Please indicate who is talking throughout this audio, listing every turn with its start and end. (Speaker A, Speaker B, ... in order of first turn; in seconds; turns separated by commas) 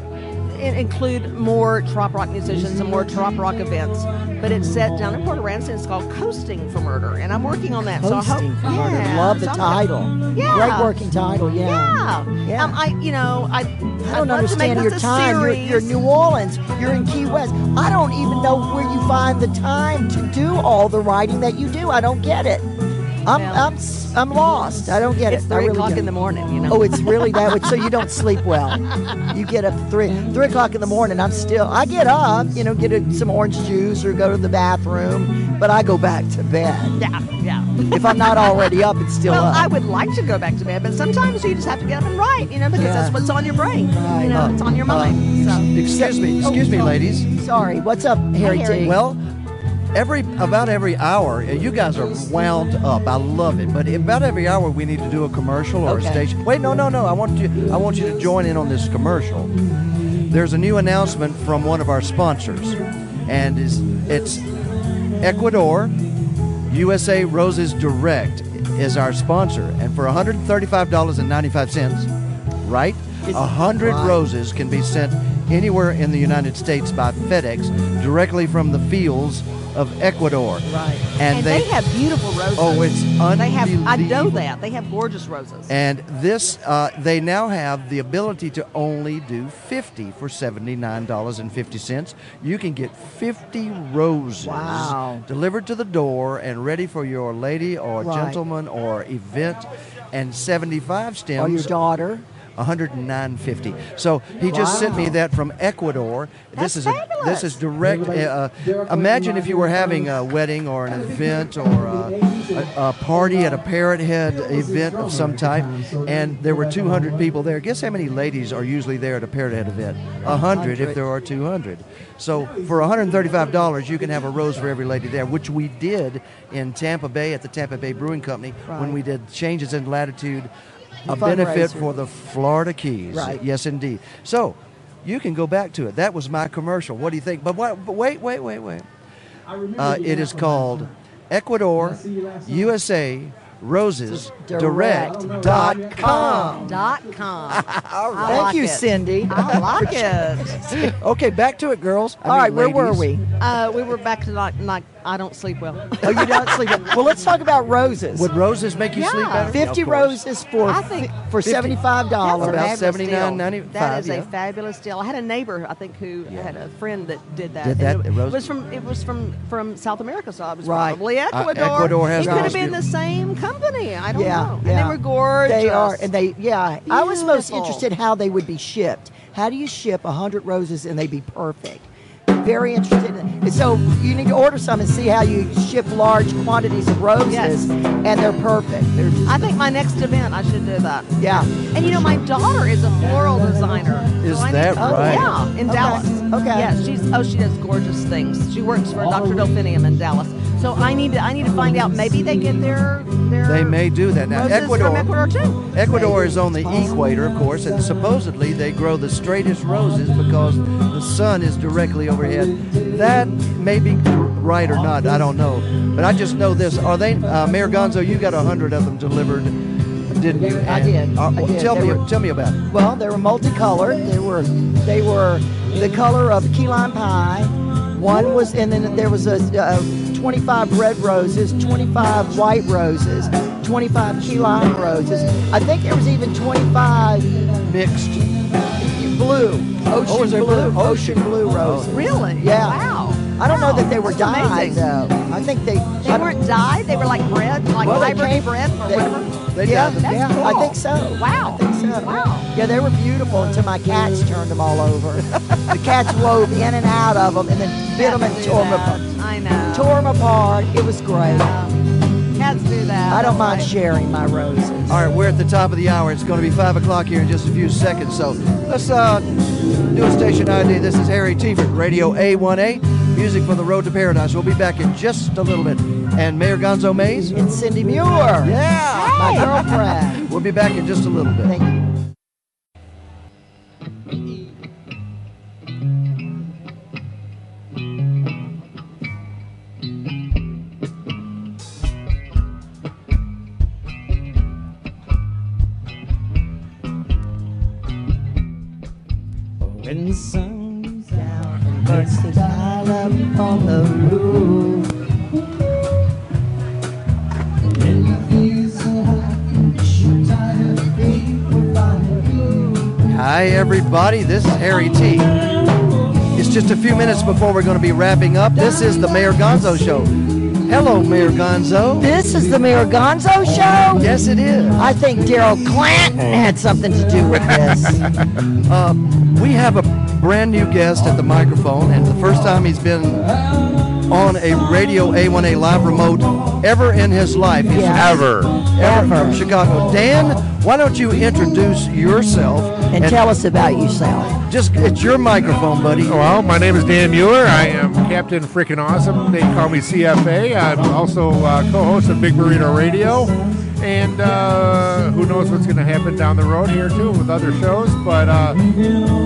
Speaker A: 0.5-10.9, Speaker B: 8.0-12.8, Speaker A: 11.6-15.9, Speaker B: 14.1-22.7, Speaker B: 23.3-26.1, Speaker A: 23.3-23.7, Speaker A: 25.3-28.1, Speaker B: 26.7-37.0, Speaker A: 37.0-38.5, Speaker B: 37.9-39.7, Speaker A: 39.3-45.7, Speaker B: 42.7-43.1, Speaker B: 43.9-44.6, Speaker C: 44.4-47.2, Speaker B: 45.8-49.0, Speaker A: 48.4-48.9, Speaker C: 48.7-49.2, Speaker C: 49.9-59.5, Speaker B: 55.9-56.2, Speaker C: 60.3-64.5, Speaker C: 65.2-66.0, Speaker C: 66.7-72.1, Speaker C: 72.6-80.7, Speaker B: 73.3-74.2, Speaker B: 80.7-81.0, Speaker C: 81.2-81.7, Speaker A: 81.3-85.7, Speaker C: 82.5-84.5, Speaker C: 85.7-101.7, Speaker B: 94.4-95.2, Speaker B: 98.0-98.4, Speaker B: 101.4-102.2, Speaker C: 102.6-130.5, Speaker B: 104.5-105.1, Speaker A: 106.5-107.6, Speaker B: 120.2-121.0, Speaker B: 128.7-129.0, Speaker C: 131.1-138.8, Speaker B: 131.1-131.9, Speaker B: 133.1-133.4, Speaker C: 139.7-146.6, Speaker B: 144.1-146.7, Speaker A: 146.0-150.6, Speaker C: 147.5-148.5, Speaker B: 148.2-150.9, Speaker C: 150.8-153.1, Speaker B: 152.2-153.2, Speaker A: 153.4-157.0, Speaker B: 156.0-158.3, Speaker C: 158.1-160.2, Speaker A: 158.9-159.6, Speaker B: 159.5-163.2, Speaker A: 160.6-176.1, Speaker C: 161.4-161.8, Speaker C: 162.3-164.3, Speaker C: 166.3-166.6, Speaker C: 167.6-168.5, Speaker B: 170.6-171.0, Speaker C: 171.3-172.8, Speaker B: 172.1-172.6, Speaker B: 174.1-189.5, Speaker A: 176.9-177.9, Speaker A: 187.3-187.7, Speaker A: 189.3-205.7, Speaker B: 191.2-191.5, Speaker C: 194.2-195.3, Speaker B: 194.8-196.7, Speaker C: 203.4-205.1, Speaker C: 205.7-222.6, Speaker B: 205.9-206.7, Speaker B: 220.6-222.0, Speaker B: 222.7-237.4, Speaker C: 237.6-238.2, Speaker B: 238.8-246.4, Speaker C: 240.0-242.1, Speaker A: 241.9-244.9, Speaker A: 246.0-249.4, Speaker B: 247.8-259.1, Speaker C: 247.8-248.2, Speaker C: 249.5-250.3, Speaker A: 250.0-252.5, Speaker A: 257.9-260.0, Speaker B: 259.7-261.5, Speaker A: 261.3-261.7, Speaker A: 262.3-263.7, Speaker B: 263.1-265.0, Speaker C: 264.9-269.3, Speaker C: 269.9-277.4, Speaker B: 277.3-278.6, Speaker C: 278.4-281.5, Speaker A: 278.8-279.8, Speaker B: 279.1-280.2, Speaker B: 281.5-281.9, Speaker B: 299.7-304.9, Speaker B: 310.7-312.1, Speaker C: 313.1-315.4, Speaker C: 316.3-322.1, Speaker B: 318.6-319.8, Speaker B: 322.0-324.1, Speaker C: 323.9-324.8, Speaker B: 324.8-328.0, Speaker C: 328.6-333.3, Speaker C: 334.1-343.2, Speaker B: 337.7-339.4, Speaker D: 337.9-338.6, Speaker B: 342.9-344.3, Speaker C: 344.5-346.2, Speaker D: 345.9-358.6